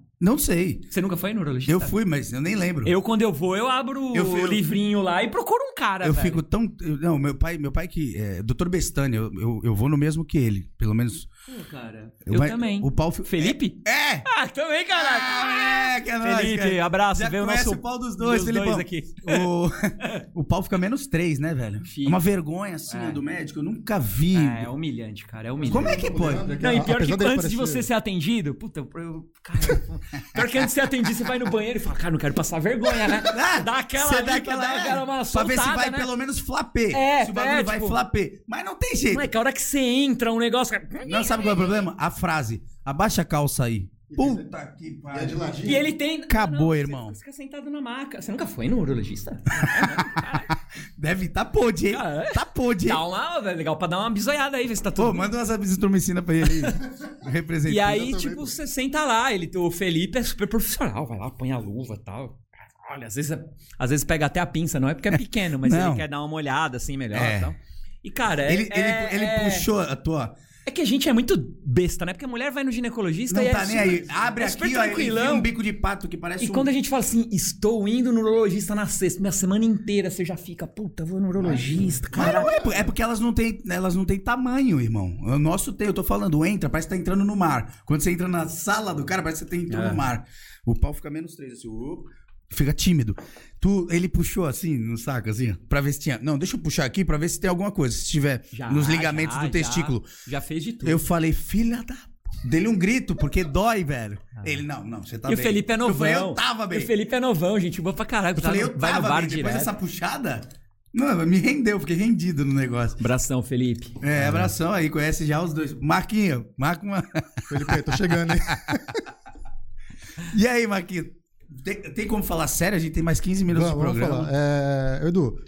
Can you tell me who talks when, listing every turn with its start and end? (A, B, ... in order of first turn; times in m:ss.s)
0:00.2-0:00.9 A
0:00.9-0:01.9 B
0:01.7-0:02.9 A
0:02.8-0:06.4 B
0:04.1-0:04.6 A
0:06.0-0:11.3 A
0:11.5-0:19.5 B
0:12.3-0:14.3 A
0:14.9-0:24.7 A
0:21.8-0:22.2 B
0:22.9-0:23.2 B
0:24.3-0:26.1 B
0:25.6-0:27.9 C
0:25.7-0:26.5 A
0:26.6-0:36.1 B
0:33.0-0:39.3 A
0:36.9-0:38.0 B
0:39.1-0:41.8 B
0:41.0-0:45.6 A
0:44.1-0:44.4 C
0:45.1-0:45.9 C
0:45.6-0:50.5 B
0:46.3-0:47.1 A
0:49.6-0:50.4 A
0:51.0-0:53.0 A
0:51.9-0:55.3 B
0:55.0-0:58.3 A
0:57.6-1:09.7 B
0:58.0-0:58.5 C
1:05.1-1:06.0 A
1:07.1-1:07.5 A
1:08.5-1:10.3 A
1:10.6-1:15.5 B
1:13.3-1:16.7 A
1:16.4-1:22.6 B
1:21.4-1:22.7 C
1:22.1-1:40.1 A
1:29.7-1:30.0 B
1:38.5-1:41.0 B
1:40.8-1:46.9 A
1:45.2-1:49.7 B
1:48.4-1:53.0 A
1:53.0-1:54.5 B
1:54.0-1:58.8 A
1:57.5-1:59.0 C
2:00.2-2:04.3 A
2:03.5-2:05.4 C